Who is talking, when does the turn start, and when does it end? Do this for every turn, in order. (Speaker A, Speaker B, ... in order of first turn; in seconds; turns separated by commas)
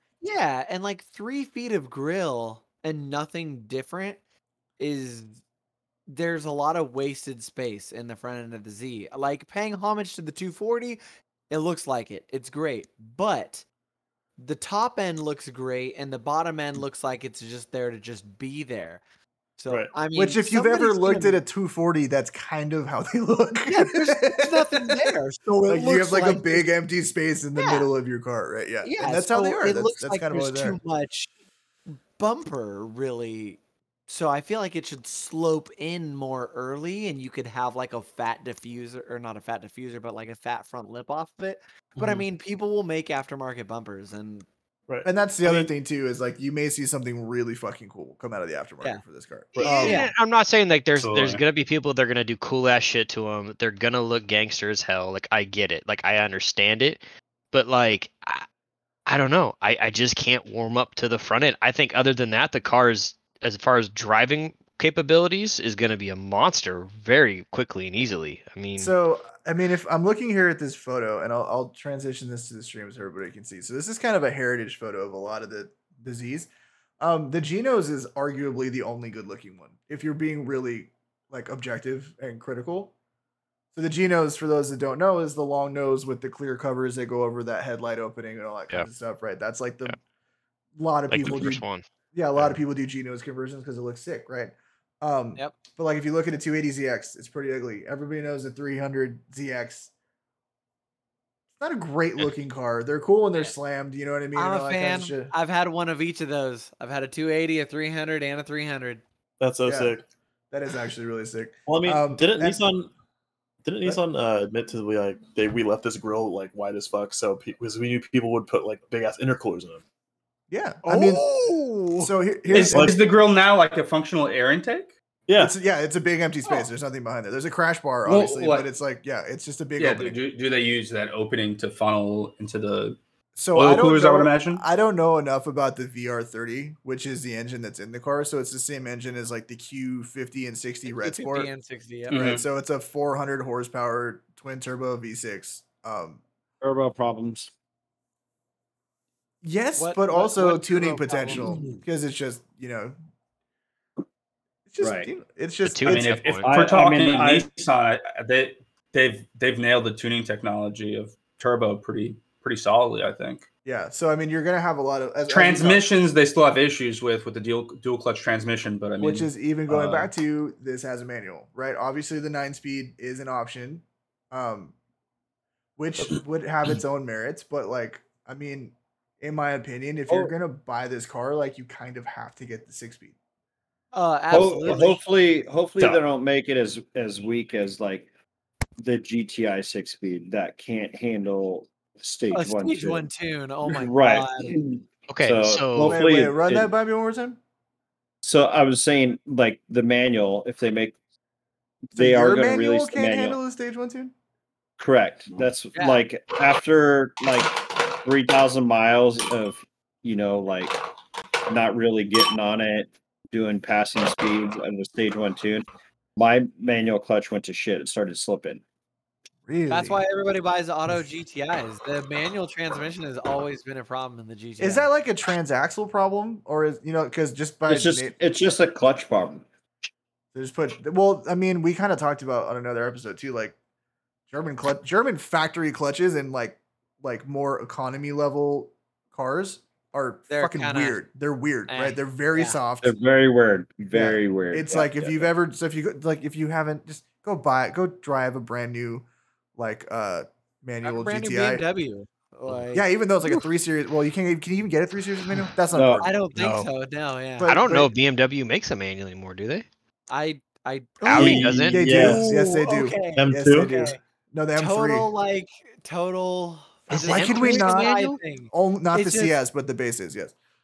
Speaker A: 0.2-4.2, Speaker A: 4.8-5.4, Speaker A: 6.1-13.6, Speaker A: 14.4-19.0, Speaker A: 19.6-21.4, Speaker B: 20.1-30.8, Speaker A: 23.6-26.7, Speaker A: 27.6-27.9, Speaker A: 28.8-31.3, Speaker A: 31.9-44.5, Speaker C: 42.0-42.2, Speaker C: 44.9-45.7, Speaker B: 45.0-50.0, Speaker C: 49.5-49.9, Speaker A: 49.6-50.1, Speaker D: 49.6-58.5, Speaker E: 51.0-51.4, Speaker D: 59.0-68.9, Speaker B: 68.8-82.9, Speaker B: 83.7-90.0, Speaker B: 90.8-91.6, Speaker D: 91.1-91.8, Speaker B: 92.1-99.9, Speaker B: 101.6-105.3, Speaker A: 104.3-109.0, Speaker C: 109.4-110.0, Speaker B: 109.7-109.9, Speaker B: 110.5-112.6, Speaker C: 111.7-112.9, Speaker C: 113.6-119.8, Speaker B: 120.5-121.2, Speaker A: 120.8-122.1, Speaker B: 122.0-123.0, Speaker C: 122.5-123.0, Speaker E: 122.5-124.9, Speaker C: 125.3-125.5, Speaker B: 125.4-130.2, Speaker E: 128.1-128.7, Speaker E: 129.8-133.0, Speaker B: 133.3-141.5, Speaker E: 133.5-134.6, Speaker A: 140.9-142.3, Speaker B: 142.1-146.2, Speaker E: 142.1-142.4, Speaker F: 146.6-147.5, Speaker B: 149.4-152.9, Speaker A: 149.8-151.6, Speaker B: 154.7-156.2, Speaker F: 154.8-155.1, Speaker D: 155.6-156.5, Speaker E: 155.8-163.4, Speaker F: 156.4-157.5, Speaker B: 163.6-165.8, Speaker E: 165.3-170.1, Speaker B: 169.0-174.7, Speaker B: 175.8-183.1, Speaker A: 183.9-185.0, Speaker F: 184.3-188.1, Speaker F: 188.8-193.1, Speaker A: 192.3-194.6, Speaker F: 193.7-196.7, Speaker D: 195.1-196.1, Speaker B: 195.8-197.4, Speaker F: 198.2-201.0, Speaker F: 201.9-203.4, Speaker B: 201.9-204.1, Speaker F: 204.8-210.8, Speaker A: 205.7-206.0, Speaker F: 211.5-218.6, Speaker B: 219.5-220.0, Speaker A: 219.7-224.9, Speaker B: 224.6-228.1, Speaker F: 227.7-229.4, Speaker B: 230.3-233.5, Speaker B: 234.3-242.9, Speaker A: 240.3-241.0, Speaker A: 241.7-242.6, Speaker F: 242.8-245.3, Speaker B: 243.9-249.0, Speaker B: 249.6-251.6, Speaker A: 250.8-253.4, Speaker B: 252.7-256.7, Speaker F: 255.7-256.1, Speaker A: 256.0-257.6, Speaker B: 257.4-257.9, Speaker D: 257.4-259.7, Speaker A: 260.1-264.0, Speaker D: 261.0-262.0, Speaker C: 261.1-262.4, Speaker B: 261.7-265.1, Speaker C: 263.1-263.7, Speaker A: 264.6-269.4, Speaker B: 266.9-268.0, Speaker D: 266.9-268.2, Speaker B: 268.5-270.3